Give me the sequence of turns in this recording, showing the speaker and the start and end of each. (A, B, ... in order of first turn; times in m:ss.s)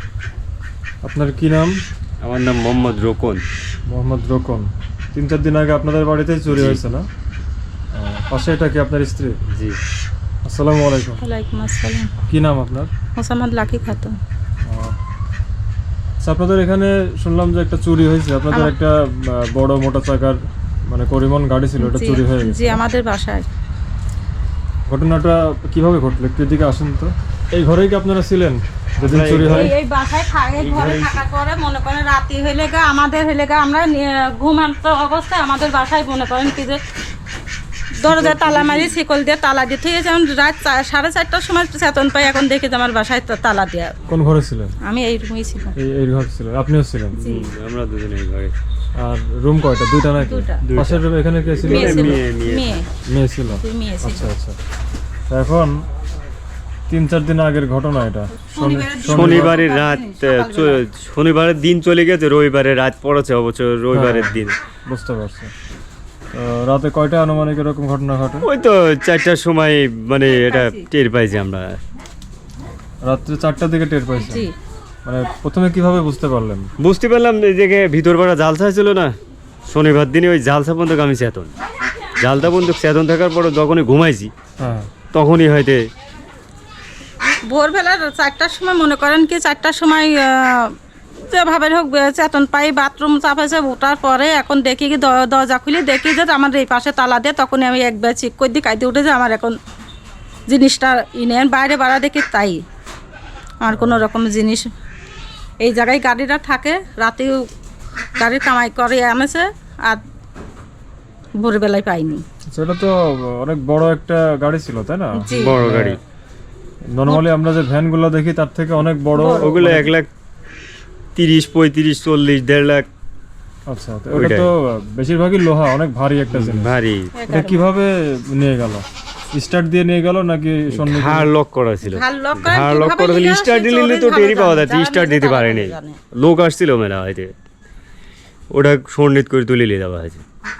0:01.0-0:01.8 A
0:02.2-0:03.4 B
0:03.9-0:07.0 A
0:06.5-0:06.8 B
0:07.9-0:09.4 A
0:09.5-0:09.8 B
0:10.4-0:11.2 A
0:11.2-0:12.1 C
0:12.3-0:12.9 A
0:13.2-0:14.2 C
0:14.6-0:15.0 A
0:16.2-0:22.8 A
0:21.8-0:23.4 C
0:24.9-0:29.7 A
0:29.0-0:29.7 B
0:29.4-0:36.8 C
0:30.6-0:31.2 B
0:38.0-0:43.9 C
0:38.1-0:38.5 A
0:38.4-0:39.0 B
0:44.1-0:44.7 A
0:44.8-0:45.7 C
0:45.8-0:47.2 A
0:47.1-0:48.5 B
0:47.2-0:47.5 C
0:49.0-0:52.2 A
0:50.2-0:50.6 C
0:50.6-0:52.7 B
0:51.6-0:52.8 C
0:53.1-0:54.6 A
0:53.6-0:54.2 C
0:55.3-0:55.8 A
0:56.9-0:59.6 A
0:58.5-1:00.8 C
0:59.1-1:04.6 B
1:03.9-1:05.5 A
1:06.3-1:08.5 A
1:08.4-1:11.8 B
1:10.3-1:10.8 C
1:13.0-1:14.5 A
1:14.2-1:14.5 C
1:15.0-1:16.7 A
1:16.8-1:19.1 B
1:19.7-1:21.5 B
1:22.2-1:24.3 B
1:24.6-1:24.9 A
1:25.1-1:25.8 B
1:27.4-1:30.7 C
1:31.3-1:39.5 C
1:40.5-1:42.6 C
1:43.6-1:44.6 C
1:43.7-1:44.0 A
1:45.6-1:47.4 C
1:48.2-1:50.0 C
1:51.4-1:52.2 C
1:52.5-1:56.0 A
1:55.2-1:55.5 C
1:55.3-1:56.0 B
1:56.9-1:59.9 A
1:59.1-1:59.6 C
1:59.4-2:00.1 B
2:01.2-2:02.9 B
2:03.7-2:06.7 A
2:04.1-2:04.5 B
2:06.3-2:07.1 B
2:07.1-2:07.7 C
2:07.3-2:11.3 A
2:10.7-2:17.3 B
2:11.8-2:16.0 C
2:18.5-2:20.2 B